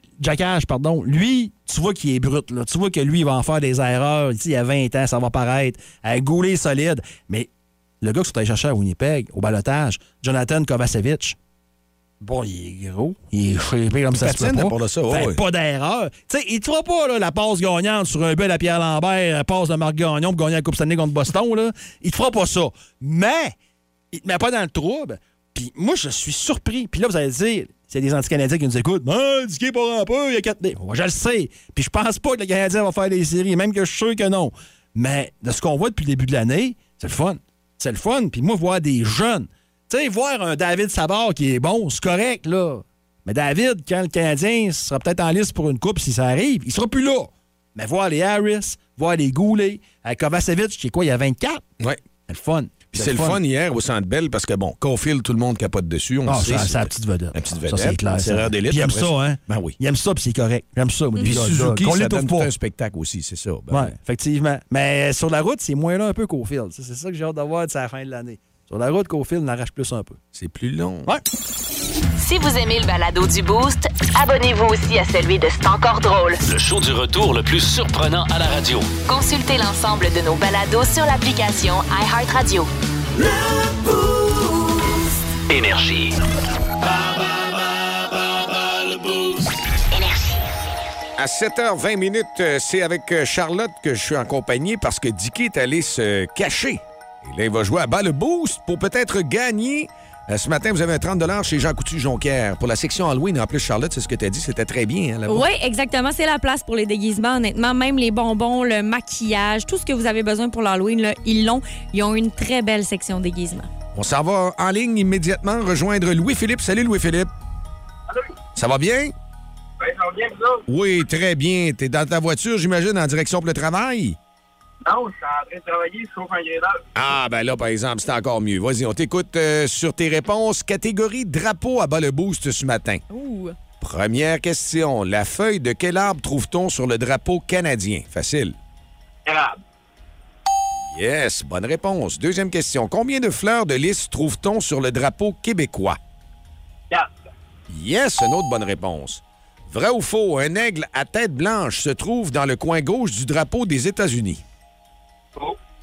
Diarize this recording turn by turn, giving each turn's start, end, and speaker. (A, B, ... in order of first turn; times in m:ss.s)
0:00.2-0:07.5 A
0:08.0-0:11.4 A
0:12.2-0:23.5 A
0:14.2-0:15.4 B
0:24.1-0:51.6 A
0:52.3-0:53.4 A
0:52.9-0:59.8 B
0:56.2-1:02.5 A
1:01.2-1:03.9 B
1:03.7-1:10.2 A
1:10.3-1:11.1 B
1:12.2-1:16.4 C
1:16.5-1:18.9 D
1:19.0-1:22.7 C
1:25.5-1:26.2 D
1:29.9-1:30.4 C
1:31.2-1:45.5 B
1:45.3-1:53.7 E
1:53.9-1:57.3 B
1:58.5-1:59.1 B
1:59.8-2:00.6 F
2:00.7-2:04.2 B
2:04.8-2:06.8 F
2:07.0-2:13.0 B
2:13.1-2:13.5 E
2:13.8-2:18.6 B
2:19.2-2:19.6 F
2:20.9-2:26.0 B
2:27.7-2:34.4 B